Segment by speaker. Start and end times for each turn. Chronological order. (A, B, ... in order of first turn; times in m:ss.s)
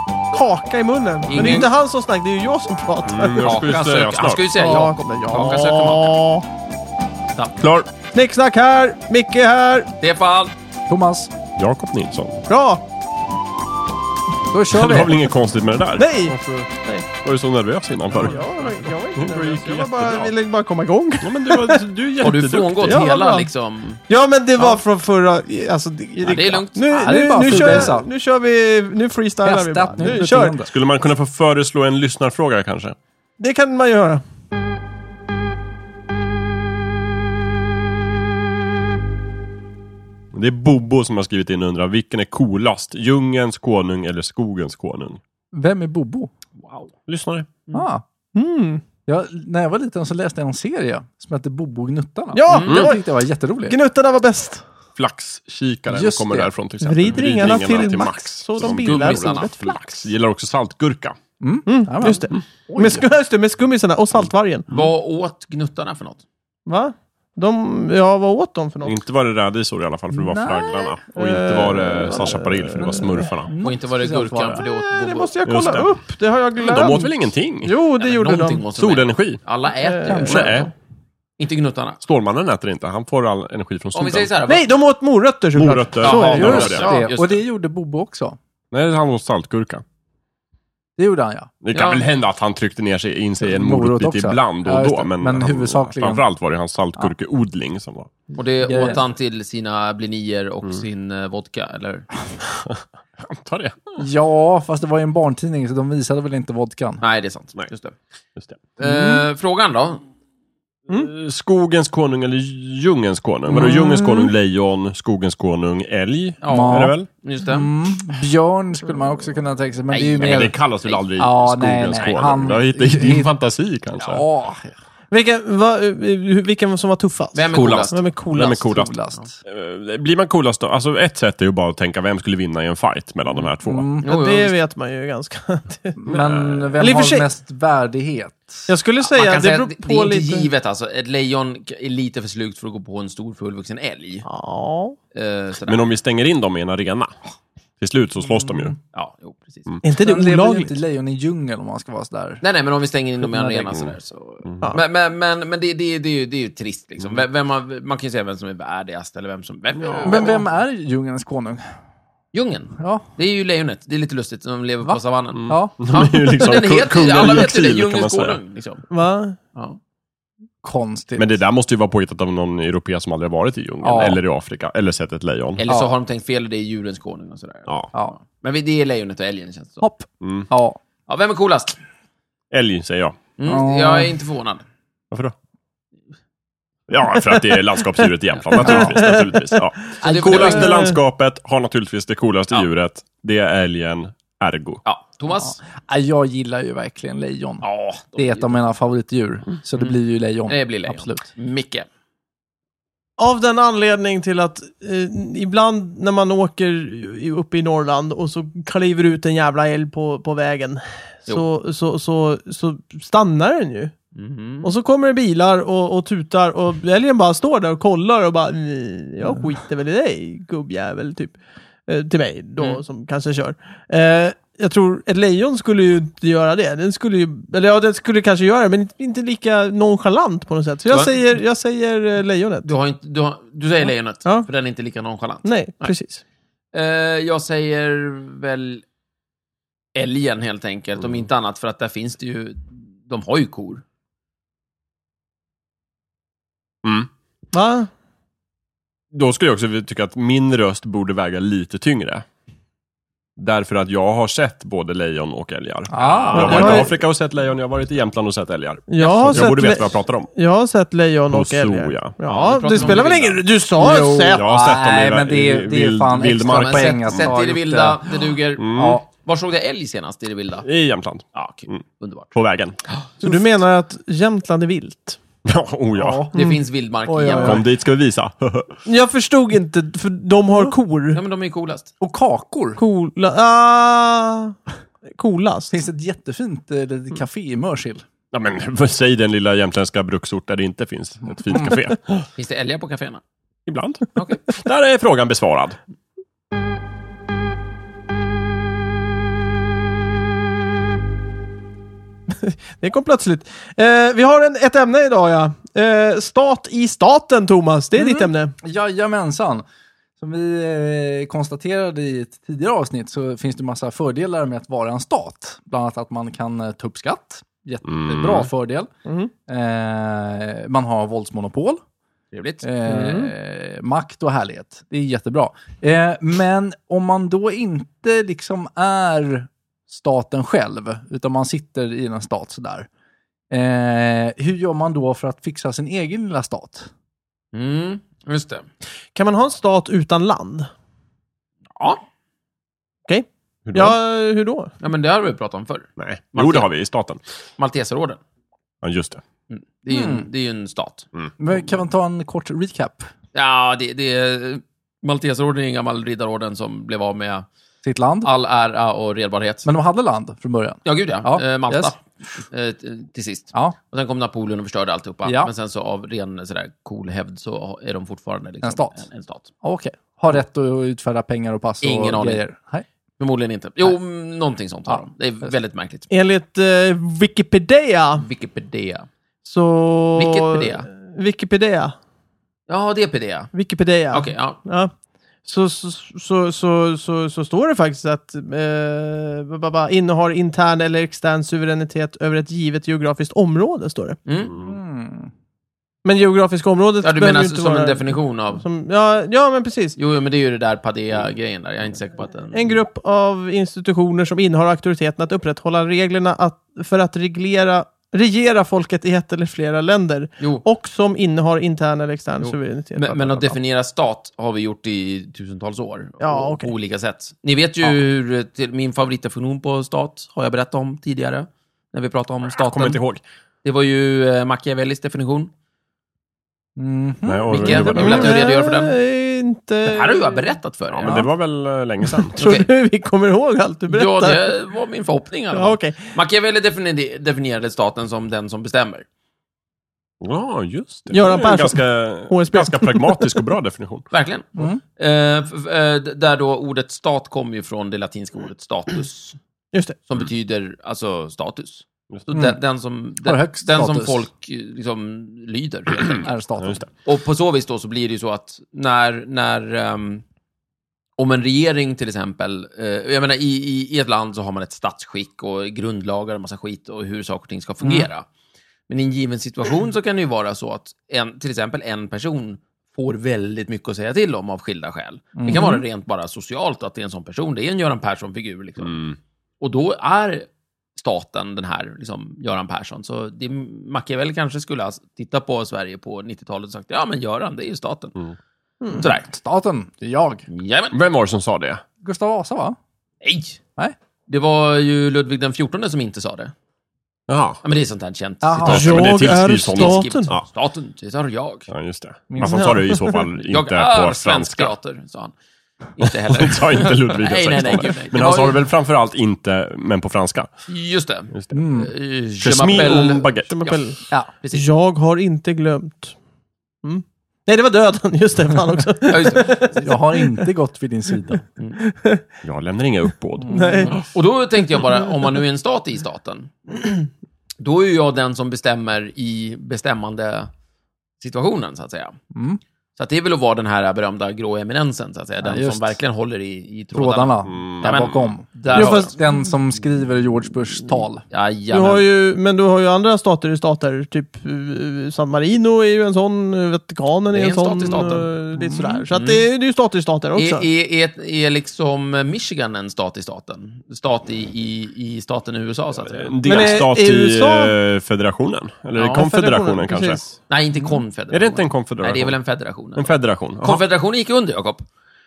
0:00.3-0:03.6 A
0:01.3-0:01.7 B
0:03.1-0:04.5 C
0:03.4-0:06.2 B
0:04.6-0:06.4 A
0:07.3-0:07.6 B
0:07.6-0:07.9 C
0:08.1-0:09.9 A
0:10.0-0:10.5 B
0:10.9-0:11.3 D
0:11.6-0:12.4 C
0:12.5-0:12.8 A
0:14.5-0:15.2 D
0:14.7-0:16.7 C
0:16.0-0:17.0 A
0:17.2-0:20.3 C
0:18.1-0:21.8 A
0:21.2-0:23.0 C
0:22.2-0:24.0 B
0:22.8-0:23.5 A
0:24.1-0:30.6 A
0:26.2-0:27.9 B
0:26.9-0:28.1 D
0:29.4-0:30.7 D
0:30.6-0:33.0 C
0:33.4-0:34.2 A
0:40.3-0:45.2 C
0:45.5-0:46.3 D
0:46.6-0:46.9 B
0:47.1-0:47.5 C
0:47.7-0:48.0 D
0:48.3-0:48.8 A
0:49.0-0:53.8 D
0:52.3-0:53.0 A
0:52.5-0:52.9 B
0:53.6-0:54.6 A
0:55.0-1:01.2 C
0:55.9-0:56.5 D
0:56.8-0:59.5 A
0:58.6-1:00.1 B
1:01.4-1:03.0 D
1:01.7-1:04.6 A
1:04.7-1:06.2 B
1:06.6-1:09.0 A
1:08.8-1:13.5 C
1:10.1-1:11.0 D
1:11.1-1:13.3 A
1:13.4-1:14.6 D
1:13.6-1:15.3 B
1:14.6-1:18.6 A
1:15.4-1:16.0 C
1:16.6-1:17.7 C
1:17.9-1:20.7 B
1:18.7-1:19.4 C
1:19.8-1:20.7 A
1:20.1-1:20.7 C
1:21.4-1:22.0 B
1:22.0-1:24.3 C
1:23.9-1:24.6 B
1:24.5-1:27.0 A
1:25.6-1:26.9 C
1:26.0-1:27.4 B
1:26.1-1:28.4 D
1:28.7-1:29.8 C
1:31.0-1:31.5 D
1:31.6-1:38.1 C
1:31.7-1:32.0 B
1:33.4-1:36.2 D
1:38.3-1:42.1 B
1:38.6-1:39.0 D
1:42.5-1:44.0 C
1:44.0-1:47.0 D
1:47.0-1:47.9 B
1:48.8-1:50.0 B
1:48.8-1:49.2 D
1:50.9-1:57.1 C
1:53.5-1:54.3 D
1:56.4-1:57.7 B
1:56.5-2:00.6 D
1:59.9-2:01.0 B
2:00.2-2:04.2 C
2:01.2-2:03.3 D
2:04.0-2:04.7 D
2:05.1-2:08.6 A
2:07.3-2:08.0 B
2:07.5-2:13.9 C
2:08.4-2:09.4 D
2:13.6-2:14.1 D
2:14.0-2:16.0 A
2:14.0-2:14.5 B
2:16.0-2:18.7 D
2:16.1-2:16.7 C
2:16.8-2:17.3 A
2:18.7-2:20.5 A
2:19.0-2:24.2 B
2:24.2-2:25.0 A
2:25.1-2:25.9 B
2:25.6-2:27.1 C
2:27.8-2:28.8 C
2:28.9-2:29.7 B
2:29.8-2:30.7 A
2:30.0-2:32.4 D
2:32.4-2:40.4 B
2:33.3-2:33.7 D
2:34.4-2:34.7 C
2:39.8-2:40.2 C
2:40.0-2:41.6 D
2:42.3-2:48.8 B
2:42.8-2:43.0 D
2:44.8-2:46.0 D
2:45.4-2:48.4 C
2:48.9-2:49.4 A
2:50.6-2:51.4 D
2:51.2-2:55.6 C
2:53.8-2:54.2 D
2:55.6-2:59.8 B
2:55.6-2:55.9 D
2:59.8-3:00.8 D
3:00.2-3:00.5 C
3:01.1-3:01.8 B
3:02.5-3:03.2 C
3:03.4-3:04.6 B
3:03.5-3:04.1 D
3:06.9-3:14.8 C
3:08.6-3:09.7 A
3:10.0-3:10.8 B
3:10.0-3:10.7 D
3:10.5-3:11.0 A
3:14.8-3:15.6 B
3:15.3-3:21.3 D
3:17.6-3:18.5 B
3:19.8-3:21.9 B
3:23.2-3:34.0 A
3:34.1-3:34.7 B
3:34.6-3:41.3 A
3:41.9-3:52.7 A
3:50.9-3:51.2 B
3:52.6-3:55.9 B
3:55.4-3:56.2 A
3:56.7-3:58.8 B
3:59.9-4:03.8 B
4:06.8-4:07.1 C
4:07.5-4:07.9 A
4:09.1-4:12.2 C
4:13.4-4:20.3 C
4:15.9-4:16.9 D
4:16.3-4:17.0 A
4:18.9-4:24.4 A
4:21.3-4:23.4 C
4:22.3-4:23.4 B
4:23.8-4:28.0 D
4:24.3-4:27.3 C
4:26.5-4:30.6 B
4:28.6-4:29.0 C
4:28.7-4:29.0 D
4:30.6-4:32.8 C
4:31.3-4:32.3 B
4:33.2-4:35.2 A
4:35.4-4:36.2 C
4:36.0-4:36.3 D
4:36.3-4:37.6 B
4:37.1-4:37.6 A
4:37.1-4:37.5 D
4:37.3-4:38.7 C
4:38.8-4:41.2 A
4:41.1-4:41.9 B
4:42.0-4:42.8 D
4:42.8-4:44.6 A
4:45.1-4:45.7 A
4:45.7-4:48.0 D
4:48.3-4:52.2 C
4:51.4-4:51.8 D
4:52.4-4:53.2 B
4:53.6-4:55.8 C
4:54.2-4:54.4 B
5:02.3-5:08.5 A
5:08.0-5:09.6 D
5:10.2-5:18.9 D
5:17.8-5:18.5 C
5:19.0-5:19.3 A
5:19.5-5:21.8 D
5:22.3-5:22.6 B
5:22.6-5:32.9 D
5:22.8-5:23.3 A
5:33.5-5:36.9 D
5:37.5-5:38.7 B
5:39.1-5:40.7 A
5:43.1-5:44.7 A
5:43.6-5:44.0 C
5:44.8-5:46.7 B
5:46.0-5:47.2 C
5:47.6-5:48.2 B
5:48.8-5:49.2 C
5:49.5-5:51.1 B
5:49.9-5:50.3 D
5:51.4-5:53.1 D
5:53.3-5:57.5 B
5:57.8-5:58.3 D
5:58.2-5:59.7 B
5:59.6-6:01.9 D
6:00.8-6:09.5 B
6:05.2-6:05.5 D
6:08.6-6:09.0 D
6:09.6-6:12.8 D
6:11.8-6:12.4 B
6:13.2-6:16.1 B
6:16.1-6:18.2 A
6:18.2-6:19.1 B
6:19.4-6:21.9 A
6:20.2-6:20.9 B
6:22.7-6:23.5 B
6:23.5-6:24.9 A
6:24.1-6:24.6 B
6:25.4-6:34.2 A
6:34.2-6:34.5 B
6:34.6-6:35.3 D
6:36.0-6:40.0 A
6:37.0-6:38.6 B
6:40.0-6:42.8 B
6:42.5-6:53.6 A
6:52.4-7:03.0 B
6:56.2-6:56.7 A
7:02.5-7:03.2 C
7:03.6-7:05.5 B
7:06.8-7:08.0 D
7:07.2-7:08.3 C
7:07.5-7:09.0 B
7:08.0-7:10.5 A
7:09.8-7:11.2 B
7:10.9-7:12.4 C
7:12.2-7:14.5 A
7:12.4-7:12.7 B
7:13.9-7:19.0 B
7:15.5-7:16.1 A
7:20.2-7:24.1 C
7:21.1-7:23.4 A
7:24.1-7:29.4 B
7:24.6-7:24.8 D
7:29.7-7:30.0 A
7:30.1-7:36.3 B
7:32.3-7:32.6 D
7:33.2-7:34.2 D
7:36.1-7:36.8 D
7:36.6-7:36.9 C
7:37.0-7:40.2 B
7:41.2-7:48.2 B
7:47.8-7:48.1 D
7:48.9-7:59.0 B
7:55.4-7:55.8 D
7:58.8-7:59.2 C
7:59.6-8:08.2 B
8:08.9-8:10.4 D
8:09.0-8:09.3 B
8:10.5-8:10.9 B
8:10.9-8:11.8 C
8:12.0-8:12.8 D
8:13.2-8:13.6 B
8:14.3-8:16.5 B
8:17.3-8:17.6 C
8:17.6-8:21.7 B
8:18.4-8:19.2 D
8:18.6-8:20.4 C
8:18.6-8:20.3 A
8:21.7-8:24.7 C
8:22.3-8:22.9 D
8:22.4-8:23.1 A
8:23.5-8:25.3 B
8:25.9-8:28.6 B
8:26.3-8:30.5 C
8:30.7-8:34.6 B
8:31.5-8:31.9 D
8:32.4-8:33.6 C
8:33.5-8:34.0 A
8:34.5-8:36.2 A
8:36.8-8:39.7 A
8:39.1-8:40.0 B
8:39.8-8:41.4 D
8:41.8-8:42.2 A
8:42.4-8:44.0 C
8:43.4-8:43.9 D
8:43.5-8:44.0 A
8:43.9-8:46.9 B
8:47.6-8:50.5 B
8:51.2-8:52.2 B
8:52.3-8:52.6 D
8:53.0-8:59.1 B
8:55.4-8:56.0 D
8:56.9-9:01.2 D
8:57.4-8:58.2 C
8:58.7-8:59.3 A
9:01.3-9:02.0 B
9:01.7-9:10.6 A
9:07.3-9:08.3 B
9:08.6-9:09.0 D
9:10.4-9:16.8 B
9:16.0-9:20.2 C
9:16.4-9:17.7 A
9:19.0-9:20.3 A
9:20.5-9:24.8 B
9:21.3-9:22.4 C
9:22.9-9:23.8 C